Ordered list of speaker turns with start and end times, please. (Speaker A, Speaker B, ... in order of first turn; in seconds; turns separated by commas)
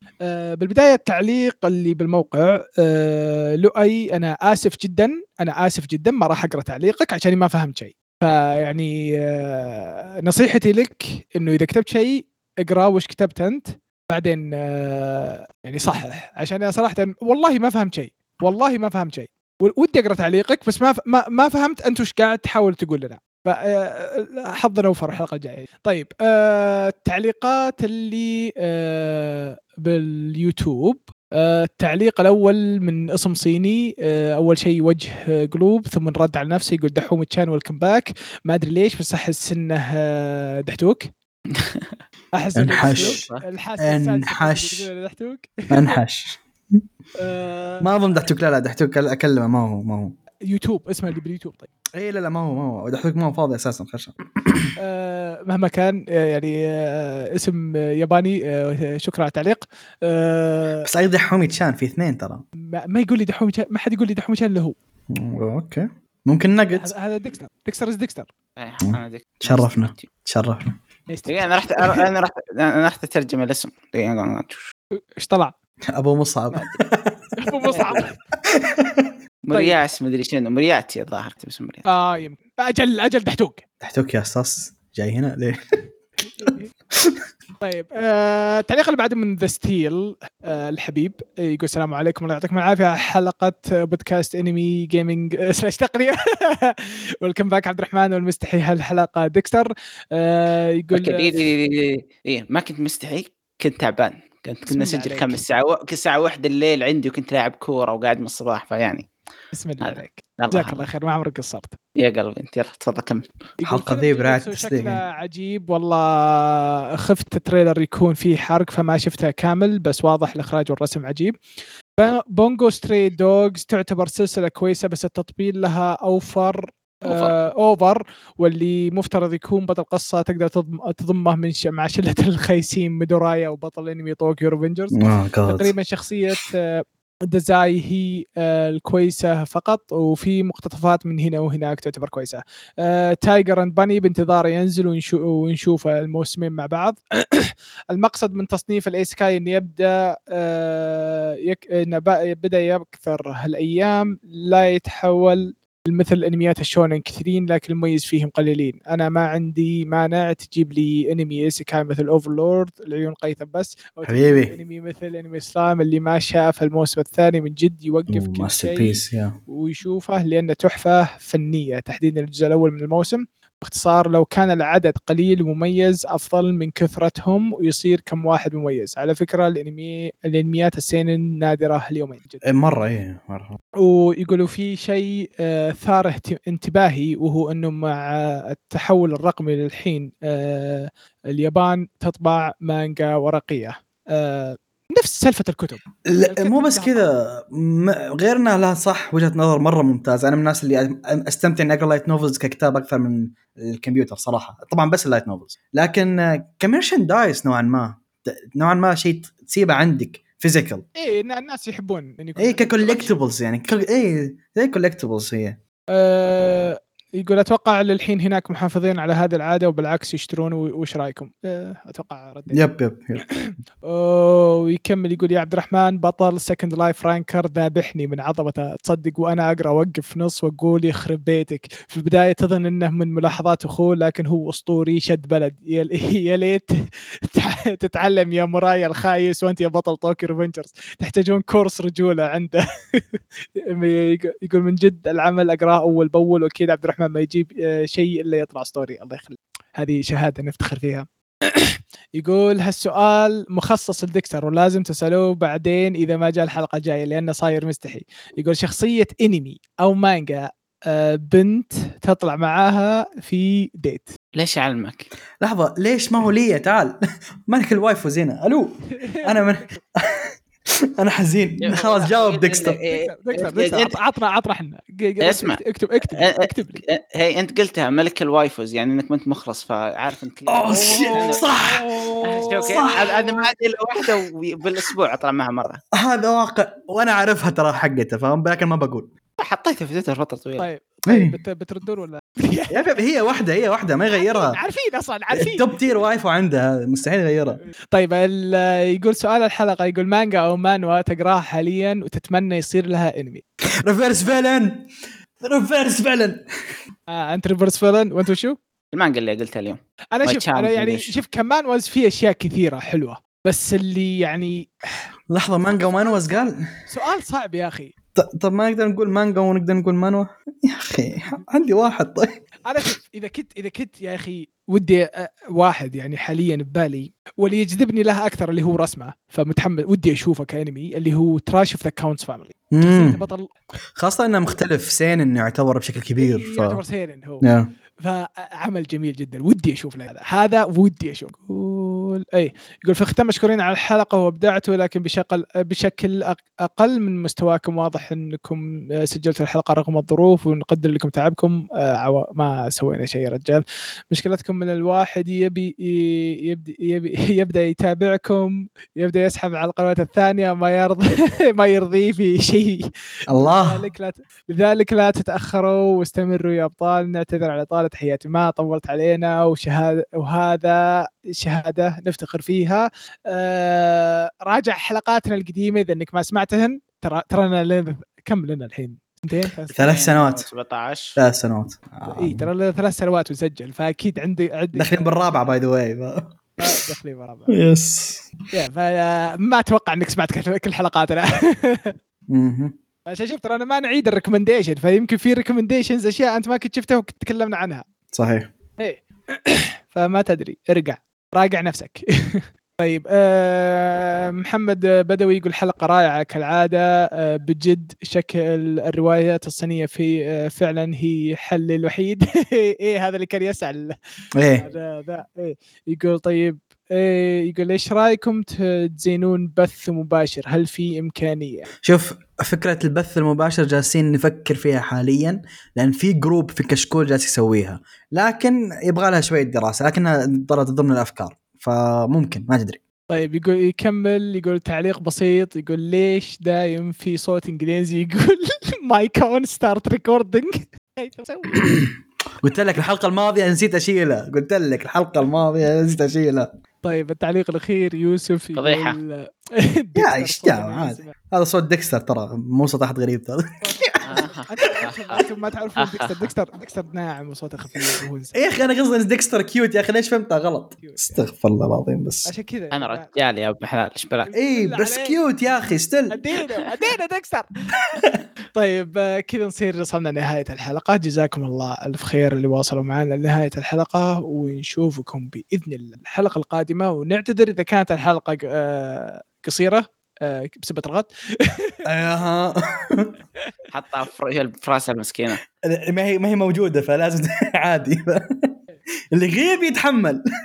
Speaker A: 0.2-41.1, Speaker B: 41.5-42.0, Speaker A: 42.3-46.0, Speaker C: 42.6-43.2, Speaker B: 42.7-43.5, Speaker C: 43.8-44.9, Speaker C: 45.7-46.8, Speaker A: 47.2-48.3, Speaker C: 47.8-50.1, Speaker A: 50.5-51.7, Speaker C: 51.9-54.7, Speaker A: 54.8-60.9, Speaker C: 60.8-62.5, Speaker A: 62.7-64.8, Speaker C: 65.1-66.9, Speaker A: 66.8-68.3, Speaker B: 68.6-70.1, Speaker C: 68.8-70.7, Speaker A: 71.1-72.0, Speaker B: 71.3-74.7, Speaker A: 75.2-75.5, Speaker C: 75.9-79.1, Speaker B: 76.5-76.8, Speaker A: 77.4-78.2, Speaker B: 77.7-78.1, Speaker B: 79.4-81.8, Speaker A: 79.5-79.8, Speaker A: 81.9-83.6, Speaker C: 83.8-85.6, Speaker A: 86.4-86.7, Speaker C: 86.5-87.2, Speaker A: 87.6-101.5, Speaker B: 100.9-109.1, Speaker A: 104.7-105.4, Speaker A: 109.5-111.8, Speaker B: 109.8-110.8, Speaker B: 112.0-113.2, Speaker A: 113.6-121.4, Speaker C: 113.7-115.0, Speaker A: 122.0-182.4, Speaker B: 127.0-127.3, Speaker C: 134.9-135.7, Speaker C: 164.1-164.5, Speaker C: 168.1-169.4, Speaker C: 182.4-183.6, Speaker A: 183.8-197.1, Speaker C: 196.1-210.8, Speaker A: 211.0-213.2, Speaker C: 212.4-215.6, Speaker A: 215.9-222.7, Speaker C: 222.5-223.2, Speaker A: 223.2-236.8, Speaker A: 237.3-264.1, Speaker B: 264.4-265.1, Speaker C: 265.4-266.9, Speaker C: 267.5-270.3, Speaker A: 269.0-269.8, Speaker C: 271.0-272.8, Speaker B: 271.6-274.0, Speaker A: 272.7-276.8, Speaker B: 275.2-281.5, Speaker C: 280.5-283.5, Speaker A: 280.7-282.9, Speaker B: 282.2-285.8, Speaker C: 286.0-289.1, Speaker B: 289.4-290.7, Speaker A: 290.6-292.8, Speaker C: 291.1-291.4, Speaker C: 292.7-294.6, Speaker A: 294.1-295.7, Speaker C: 295.3-297.6, Speaker A: 297.9-303.4, Speaker C: 303.9-304.9, Speaker C: 305.4-306.4, Speaker A: 307.1-308.6, Speaker B: 308.9-311.1, Speaker A: 310.1-314.7, Speaker C: 315.3-316.6, Speaker A: 315.7-317.9, Speaker C: 318.1-322.4, Speaker A: 322.6-333.5, Speaker C: 332.7-333.2, Speaker C: 334.0-336.8, Speaker A: 336.2-337.5, Speaker C: 337.4-337.7, Speaker A: 338.0-362.9, Speaker C: 363.3-363.9, Speaker A: 363.4-380.1, Speaker C: 379.8-380.4, Speaker B: 379.8-381.2, Speaker C: 381.2-382.5, Speaker A: 382.1-385.2, Speaker C: 384.8-386.7, Speaker A: 386.6-387.6, Speaker C: 387.5-388.3, Speaker A: 388.5-392.0, Speaker C: 392.3-392.8, Speaker A: 393.1-397.9, Speaker C: 398.1-398.5, Speaker A: 398.8-413.9, Speaker C: 414.4-414.6, Speaker A: 414.6-421.7, Speaker C: 421.8-432.8, Speaker A: 433.1-441.7, Speaker C: 441.6-446.6, Speaker A: 446.8-451.1, Speaker B: 448.6-449.0, Speaker C: 450.0-454.2, Speaker A: 453.6-458.3, Speaker B: 454.0-455.3, Speaker B: 455.8-456.3, Speaker C: 458.3-462.3, Speaker A: 460.8-461.2, Speaker A: 462.2-463.1, Speaker B: 462.7-464.3, Speaker A: 464.3-465.2, Speaker C: 464.3-466.2, Speaker A: 466.1-467.5, Speaker A: 468.6-481.9, Speaker C: 481.9-483.1, Speaker B: 483.7-485.4, Speaker C: 485.6-488.5, Speaker C: 489.1-490.2